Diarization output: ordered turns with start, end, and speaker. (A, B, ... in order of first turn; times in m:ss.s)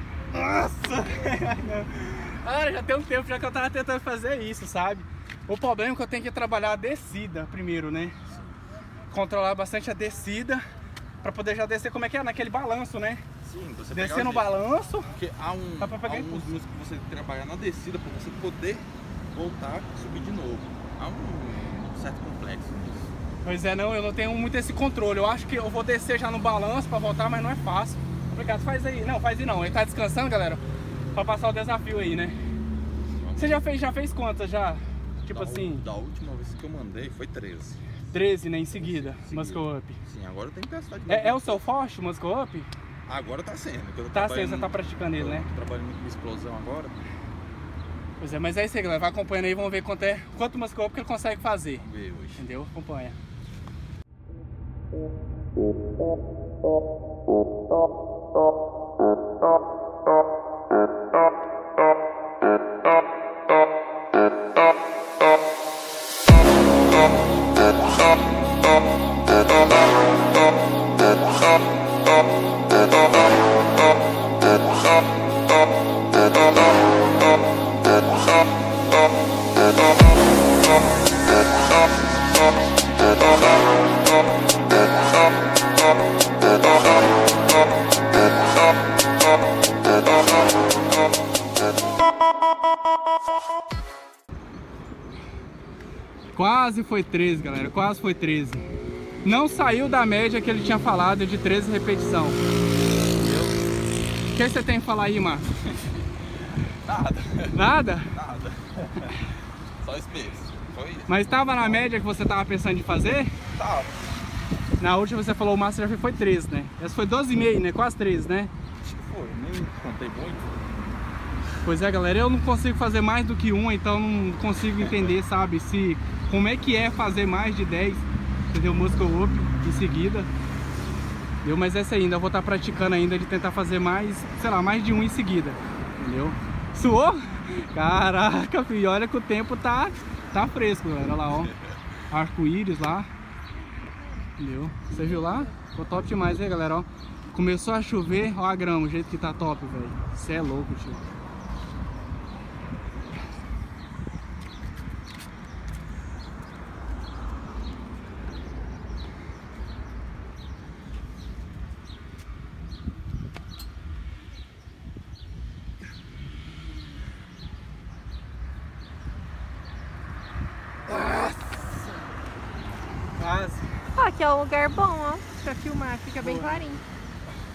0:00.3-0:08.2 A
0:08.3-0:08.6 B
0:09.1-0:10.6 A
0:11.2-0:13.2 A
0:13.4-0:14.5 B
0:13.9-0:15.1 A
0:15.1-0:23.1 B
0:15.8-0:16.6 A
0:23.4-0:30.6 A
0:31.1-0:32.4 A
0:33.2-0:33.7 B
0:33.4-0:35.8 A
0:35.3-0:37.8 B
0:38.1-0:40.0 A
0:38.8-0:41.6 B
0:41.1-0:42.7 A
0:43.0-0:46.9 B
0:44.1-0:45.5 A
0:48.2-0:51.8 A
0:51.8-0:52.4 B
0:52.4-0:53.2 A
1:36.3-1:38.6 A
1:39.2-1:42.4 A
1:43.2-1:43.5 B
1:44.3-1:45.5 A
1:46.8-1:49.2 B
1:47.5-1:48.1 A
1:49.8-1:51.9 B
1:51.1-1:53.3 A
1:53.5-1:54.0 B
1:54.8-1:58.5 A
1:58.8-2:00.6 B
2:01.6-2:10.3 A
2:04.8-2:05.1 B
2:11.4-2:21.6 A
2:22.1-2:23.1 A
2:24.4-2:31.0 A
2:25.0-2:25.4 C
2:50.9-2:51.8 A
2:53.2-2:53.6 A
2:53.9-2:56.8 C
2:56.2-2:56.5 A